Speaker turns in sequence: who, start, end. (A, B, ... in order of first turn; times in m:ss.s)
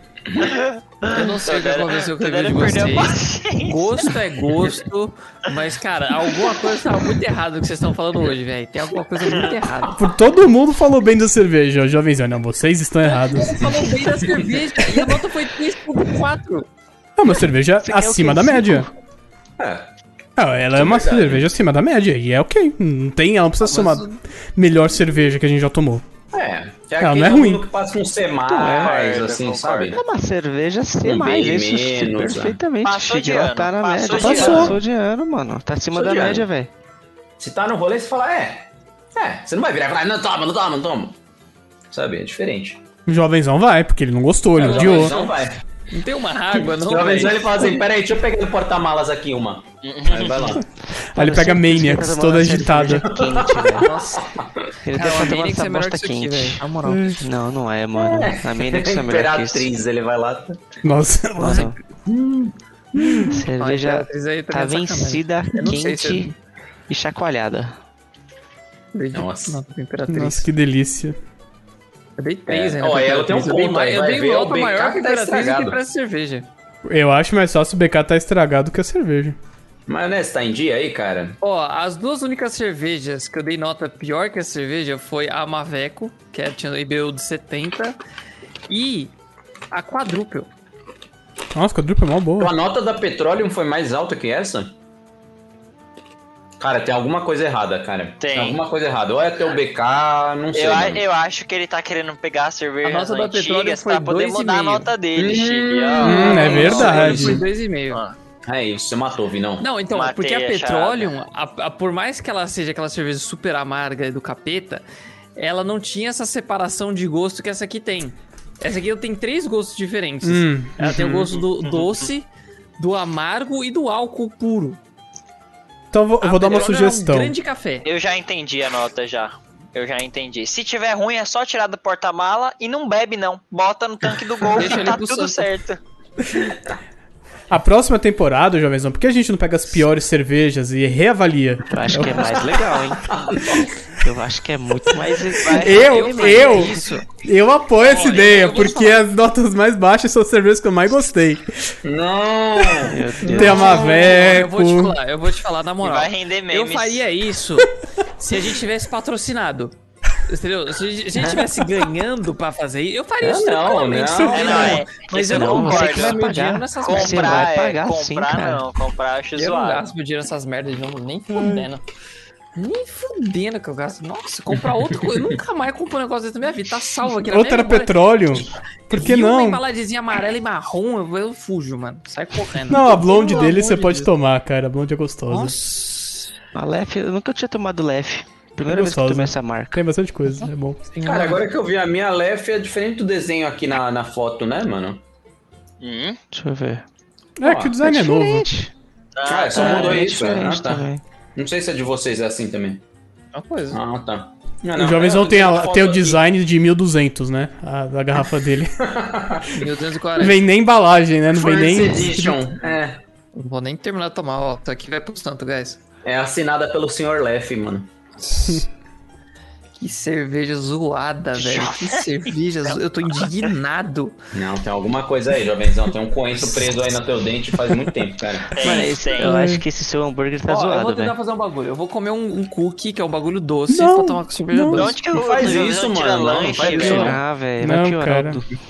0:00.4-0:04.1 A
0:01.0-0:10.0 B
0:10.0-0:13.7 C
0:13.1-0:16.7 B
0:17.2-0:18.9 C
0:17.8-0:18.9 D
0:19.6-0:19.9 E
0:20.4-0:26.0 C
0:20.7-0:21.5 E
0:23.6-0:24.2 B
0:26.3-0:30.0 E
0:27.0-0:27.7 C
0:28.5-0:28.9 D
0:28.6-0:30.0 A
0:29.9-0:36.7 D
0:31.0-0:32.6 E
0:32.8-0:34.7 A
0:34.2-0:34.8 E
0:34.2-0:34.8 C
0:35.9-0:36.4 E
0:37.4-0:41.2 E
0:41.9-0:42.8 E
0:43.1-0:45.2 C
0:44.6-0:45.4 B
0:44.6-0:45.6 E
0:45.9-0:47.7 B
0:46.6-0:50.6 E
0:49.8-0:50.6 A
0:51.1-0:53.1 C
0:51.2-0:53.9 D
0:53.2-0:54.5 E
0:53.8-0:54.2 B
0:54.9-0:56.6 D
0:54.9-0:57.2 B
0:56.9-0:57.2 C
0:57.2-0:59.7 D
0:58.0-1:00.6 E
1:00.8-1:01.7 C
1:01.4-1:01.8 D
1:01.4-1:01.7 B
1:02.1-1:02.5 E
1:03.0-1:03.3 C
1:03.1-1:06.3 B
1:03.3-1:06.3 D
1:06.9-1:07.7 D
1:08.9-1:10.5 B
1:09.1-1:09.6 E
1:10.1-1:11.2 C
1:12.2-1:16.5 B
1:12.5-1:15.8 E
1:16.9-1:19.4 C
1:19.9-1:21.4 E
1:21.4-1:28.0 B
1:28.7-1:29.1 B
1:29.7-1:30.5 B
1:31.5-1:32.5 C
1:32.4-1:34.7 E
1:36.6-1:41.0 E
1:38.2-1:38.6 A
1:40.5-1:47.0 A
1:42.8-1:44.9 B
1:45.2-1:47.5 E
1:46.0-1:47.4 C
1:46.1-1:48.0 B
1:48.5-1:49.7 E
1:49.6-1:54.8 B
1:49.9-1:51.1 A
1:55.4-2:02.3 B
2:00.2-2:01.3 C
2:02.8-2:04.8 B
2:05.9-2:07.4 C
2:06.2-2:07.9 B
2:07.8-2:15.8 A
2:14.5-2:15.5 B
2:17.5-2:22.4 C
2:21.7-2:23.1 D
2:23.1-2:23.6 E
2:24.0-2:26.8 D
2:25.5-2:27.1 B
2:25.5-2:31.7 C
2:27.8-2:28.5 A
2:27.9-2:29.0 B
2:31.8-2:33.7 E
2:32.8-2:33.8 D
2:33.3-2:35.0 C
2:33.3-2:39.7 B
2:35.8-2:37.0 A
2:40.3-2:47.5 B
2:41.2-2:41.4 E
2:43.2-2:44.8 E
2:44.3-2:46.2 A
2:44.5-2:48.6 D
2:46.8-2:49.8 A
2:49.4-2:51.8 B
2:51.3-2:51.7 C
2:52.6-2:58.1 B
2:57.3-2:59.6 C
2:58.9-3:04.1 B
3:02.7-3:05.6 C
3:05.3-3:06.3 B
3:06.6-3:09.8 D
3:08.6-3:10.8 C
3:10.8-3:11.5 B
3:11.0-3:15.0 E
3:15.8-3:16.2 A
3:16.3-3:16.8 D
3:17.4-3:18.5 C
3:17.4-3:17.8 E
3:17.8-3:18.7 D
3:19.2-3:20.1 A
3:19.3-3:22.8 E
3:19.5-3:21.0 D
3:23.3-3:23.8 B
3:23.7-3:26.2 E
3:24.8-3:28.8 C
3:28.8-3:29.7 E
3:29.5-3:30.5 B
3:30.2-3:32.4 C
3:31.3-3:33.0 E
3:33.3-3:35.8 B
3:36.0-3:37.9 E
3:38.2-3:38.6 B
3:39.8-3:44.2 B
3:41.4-3:42.1 A
3:44.3-3:48.9 E
3:48.5-3:49.4 A
3:48.6-3:51.2 D
3:49.2-3:49.6 C
3:50.5-3:55.0 B
3:53.7-3:54.9 C
3:54.7-3:57.2 A
3:55.1-3:57.2 E
3:56.6-3:57.1 B
3:56.6-3:58.6 D
3:57.6-3:58.4 C